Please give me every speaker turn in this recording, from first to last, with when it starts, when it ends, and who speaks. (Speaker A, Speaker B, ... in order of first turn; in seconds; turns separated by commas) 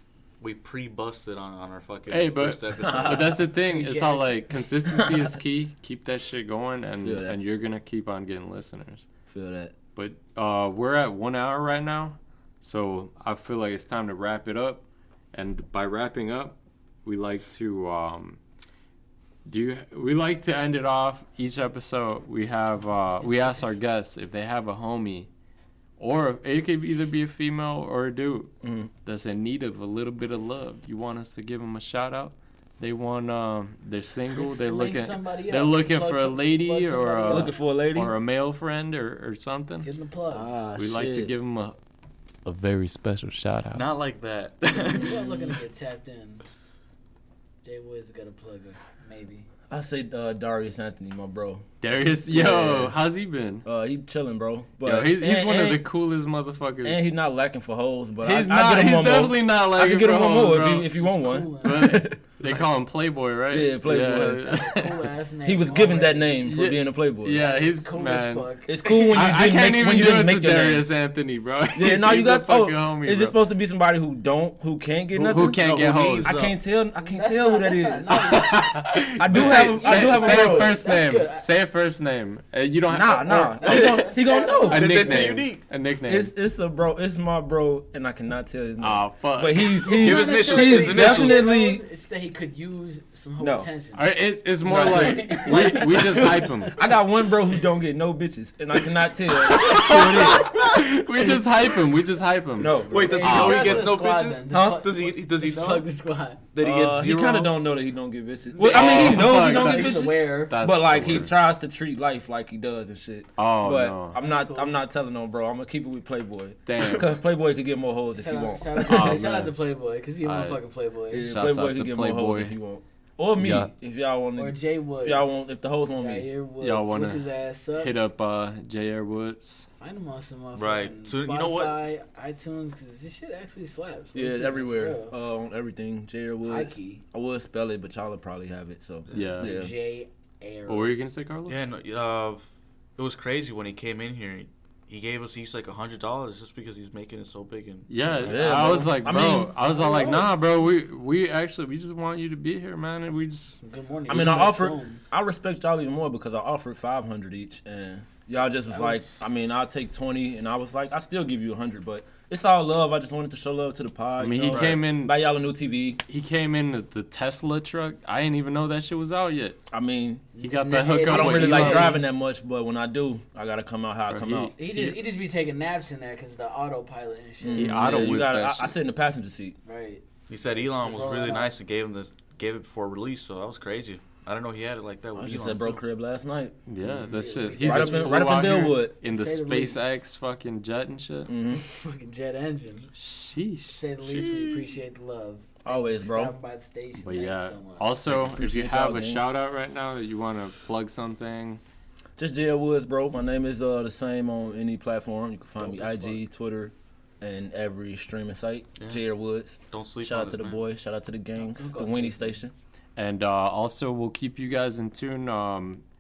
Speaker A: 0.4-3.4, Speaker B: 2.1-9.1, Speaker C: 2.8-3.3, Speaker D: 3.6-4.3, Speaker C: 4.9-5.3, Speaker C: 7.0-7.4, Speaker C: 9.3-9.7, Speaker B: 10.0-18.4, Speaker B: 19.5-25.3, Speaker B: 26.0-28.5, Speaker C: 28.6-28.9, Speaker B: 29.1-39.9, Speaker D: 34.3-37.5, Speaker C: 37.3-38.1, Speaker D: 39.8-40.5, Speaker C: 40.3-41.3, Speaker B: 40.8-41.8, Speaker B: 42.5-43.9, Speaker A: 43.7-45.4, Speaker C: 44.8-45.5, Speaker D: 44.9-46.4, Speaker D: 47.6-49.5, Speaker C: 49.7-51.7, Speaker B: 51.8-53.6, Speaker C: 52.3-53.0, Speaker C: 53.6-55.9, Speaker B: 54.8-57.1, Speaker C: 56.8-62.2, Speaker B: 58.2-61.0, Speaker D: 60.9-62.0, Speaker B: 61.6-65.0, Speaker A: 62.4-62.7, Speaker C: 63.5-64.8, Speaker D: 64.5-66.3, Speaker C: 65.5-67.4, Speaker B: 66.4-73.3, Speaker D: 67.3-69.2, Speaker C: 68.7-70.9, Speaker C: 71.7-75.6, Speaker A: 75.1-76.6, Speaker B: 75.3-76.3, Speaker C: 76.2-78.4, Speaker D: 77.0-81.5, Speaker B: 78.1-83.7, Speaker C: 79.2-80.7, Speaker C: 82.9-85.1, Speaker D: 83.6-85.2, Speaker A: 83.7-84.1, Speaker B: 84.6-86.3, Speaker A: 84.7-85.6, Speaker C: 86.1-91.8, Speaker B: 88.8-89.7, Speaker D: 89.8-94.0, Speaker A: 89.9-91.5, Speaker C: 93.4-93.7, Speaker B: 94.0-96.8, Speaker C: 94.7-96.1, Speaker D: 94.7-96.5, Speaker A: 96.0-96.5, Speaker C: 96.8-100.6, Speaker B: 99.3-103.9, Speaker A: 100.3-100.6, Speaker C: 102.6-103.5, Speaker A: 102.8-105.9, Speaker D: 102.9-106.5, Speaker C: 104.5-104.8, Speaker A: 106.5-107.6, Speaker C: 106.6-119.1, Speaker A: 108.6-109.4, Speaker B: 108.6-111.3, Speaker D: 108.7-110.6, Speaker B: 113.4-114.2, Speaker D: 114.1-114.8, Speaker B: 116.7-117.2, Speaker D: 118.1-121.3, Speaker B: 118.8-119.5, Speaker B: 120.2-120.6, Speaker C: 121.1-126.3, Speaker B: 121.1-122.5, Speaker B: 123.4-123.7, Speaker D: 124.4-125.4, Speaker D: 125.9-127.9, Speaker B: 126.6-129.7, Speaker D: 129.8-135.2, Speaker A: 130.6-131.8, Speaker C: 134.2-139.7, Speaker D: 136.5-137.0, Speaker A: 139.1-139.4, Speaker B: 139.1-139.5, Speaker D: 139.4-141.0, Speaker B: 140.7-141.6, Speaker A: 141.5-148.9, Speaker B: 147.9-153.6, Speaker C: 148.2-149.8, Speaker D: 149.8-150.3, Speaker D: 153.6-155.0, Speaker C: 154.1-166.0, Speaker D: 158.7-159.2, Speaker B: 164.2-165.2, Speaker A: 164.5-164.8, Speaker B: 166.1-169.6, Speaker C: 169.7-170.3, Speaker D: 170.4-172.1, Speaker B: 170.4-172.0, Speaker C: 171.1-174.5, Speaker B: 174.1-175.0, Speaker D: 174.6-178.2, Speaker C: 177.4-179.6, Speaker B: 177.6-178.7, Speaker D: 179.7-180.0, Speaker A: 180.3-185.8, Speaker D: 180.6-181.5, Speaker C: 185.2-186.6, Speaker B: 186.7-191.3, Speaker A: 186.8-187.1, Speaker D: 187.0-189.9, Speaker C: 187.6-188.9, Speaker C: 191.3-191.6, Speaker D: 191.5-192.9, Speaker B: 193.0-193.8, Speaker D: 193.7-197.9, Speaker A: 194.0-194.7, Speaker C: 195.6-196.3, Speaker B: 197.0-201.6, Speaker C: 198.1-199.2, Speaker C: 202.2-212.5, Speaker D: 205.6-206.2, Speaker A: 208.8-209.0, Speaker A: 209.7-210.6, Speaker D: 211.4-212.4, Speaker B: 213.0-215.8